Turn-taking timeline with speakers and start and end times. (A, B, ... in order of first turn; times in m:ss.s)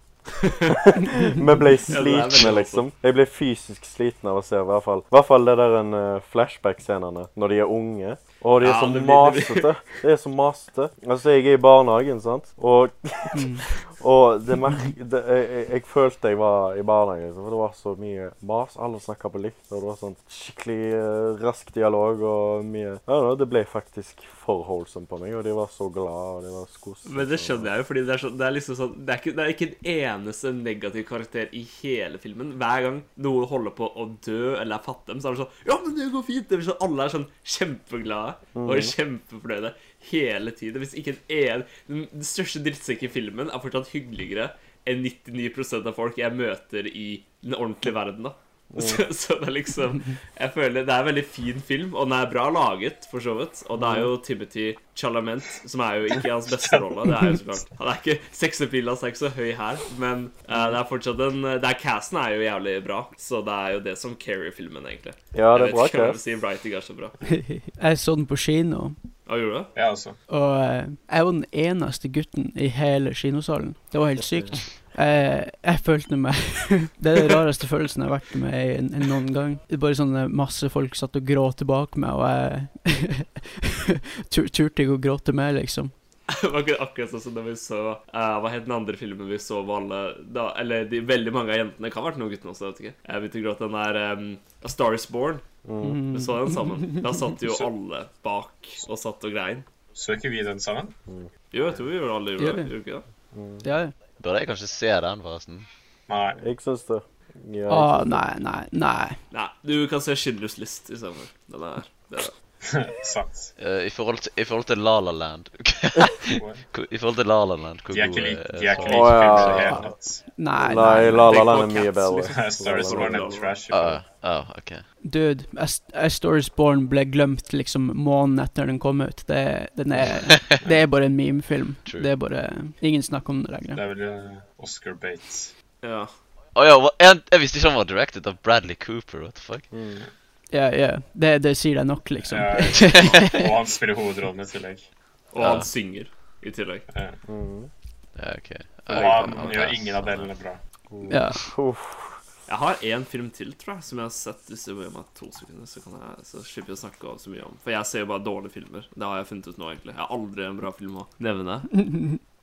0:00.4-0:00.8 A
0:00.7-0:27.7 B
0:01.9-0:02.8 A
0:08.6-0:09.8 A
0:13.3-0:13.6 C
0:27.0-1:07.2 A
0:38.6-0:38.9 B
0:48.7-0:49.0 B
0:53.8-0:54.1 B
1:05.3-1:06.2 B
1:07.2-1:09.0 C
1:09.3-1:09.7 A
1:09.8-1:10.2 D
1:10.3-1:25.9 C
1:14.2-1:14.6 B
1:26.3-1:35.4 A
1:35.6-1:36.0 B
1:35.8-1:37.1 C
1:36.1-1:39.7 A
1:40.0-1:40.9 D
1:41.5-1:43.0 A
1:42.4-1:42.7 C
1:43.3-1:43.6 B
1:43.6-1:43.9 C
1:44.2-1:45.7 E
1:46.1-1:46.4 D
1:46.4-1:48.3 B
1:47.7-1:49.2 C
1:49.3-1:52.3 A
1:52.6-1:53.5 D
1:53.6-1:59.8 E
1:56.3-1:56.6 D
1:57.9-2:00.2 D
1:58.8-1:59.9 B
2:00.4-2:01.4 C
2:00.6-2:03.3 B
2:01.3-2:04.0 D
2:01.3-2:03.6 A
2:03.7-2:04.8 E
2:05.0-2:13.8 C
2:10.1-2:10.6 E
2:13.8-2:15.5 D
2:15.8-2:16.1 A
2:16.6-2:19.7 E
2:19.7-2:20.0 B
2:20.5-2:23.5 C
2:22.3-2:24.8 D
2:22.8-2:23.1 E
2:25.3-2:26.8 A
2:25.4-2:25.7 E
2:26.9-2:27.2 D
2:27.3-2:27.7 B
2:28.2-2:30.3 E
2:28.9-2:30.6 D
2:28.9-2:29.4 A
2:30.9-2:32.2 B
2:31.1-2:31.4 C
2:32.5-2:41.8 A
2:41.8-2:42.2 C